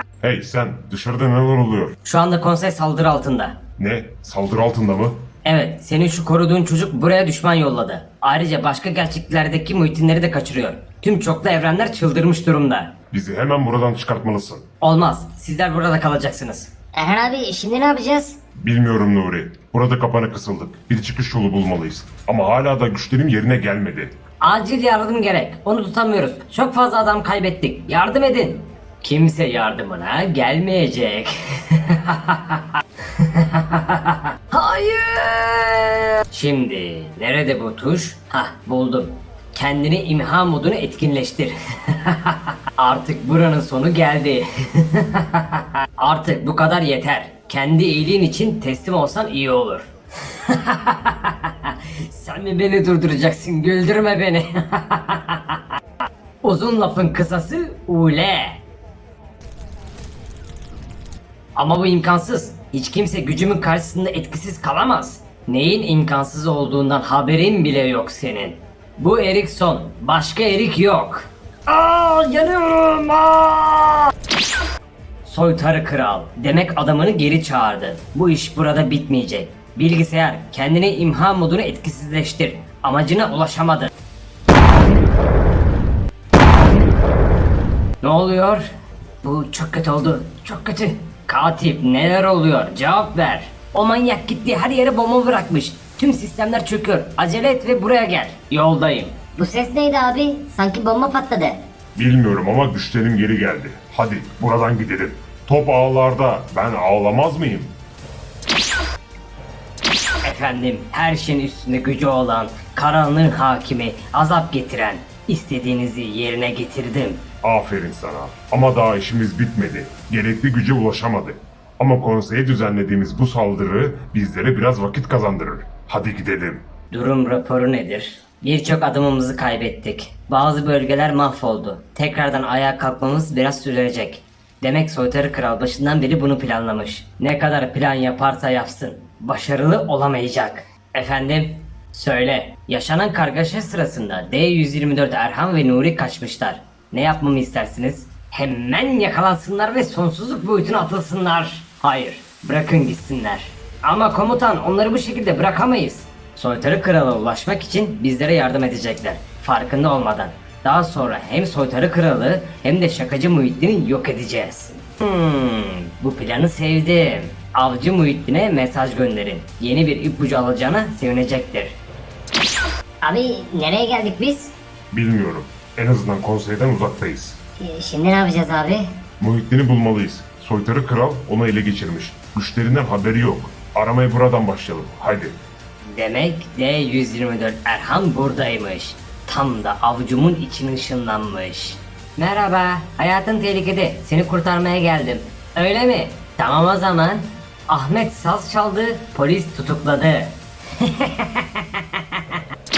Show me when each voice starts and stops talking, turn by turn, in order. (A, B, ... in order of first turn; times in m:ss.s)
0:00.2-0:02.0 A
0:02.0-0:03.6 B
0:03.8-0:05.2 A
0:05.4-0:12.9 B
0:13.1-0:14.6 A
0:14.8-0:16.7 B
0:16.9-0:18.4 C
0:18.6-0:24.1 A
0:24.4-0:55.8 B
0:56.4-0:58.6 B
1:01.6-1:14.1 B
1:15.2-1:23.9 B
1:28.0-1:28.7 B
1:29.2-1:39.2 B
1:39.4-1:41.6 C
1:42.0-1:47.7 A
1:50.2-1:57.2 B
1:57.4-2:06.6 A
2:06.9-2:51.8 B
2:53.0-2:54.5 C
2:54.9-2:57.4 A
2:57.6-2:58.9 C
2:59.2-3:05.4 A
3:05.8-3:22.3 B